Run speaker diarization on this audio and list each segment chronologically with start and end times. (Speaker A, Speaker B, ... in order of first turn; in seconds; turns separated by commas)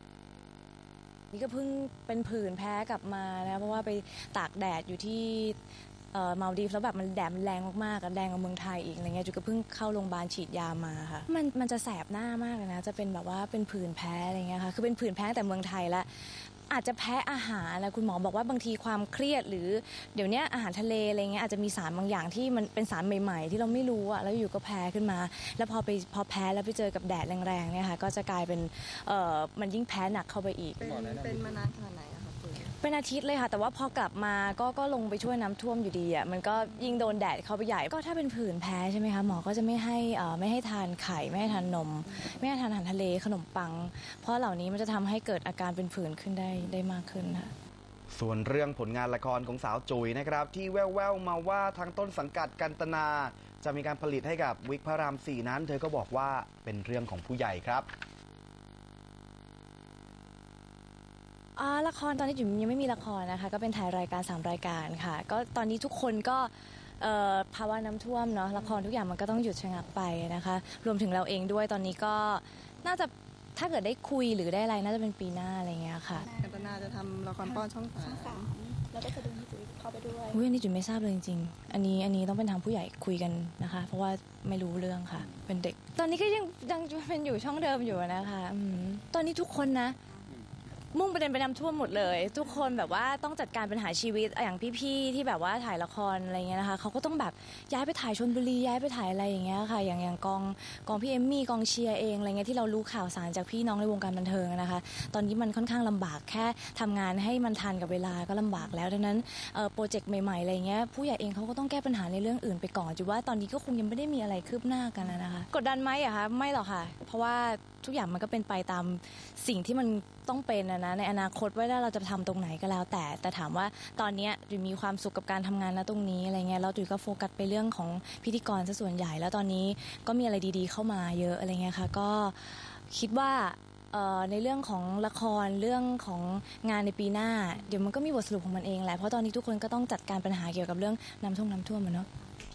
Speaker A: 1.3-5.6, Speaker A: 6.1-30.9, Speaker B: 30.8-32.7, Speaker C: 30.8-31.6, Speaker A: 32.8-47.5, Speaker C: 48.1-57.9, Speaker A: 61.6-76.3, Speaker D: 76.3-76.8, Speaker B: 76.3-78.5, Speaker D: 77.5-80.4, Speaker A: 80.3-90.0, Speaker A: 90.9-142.1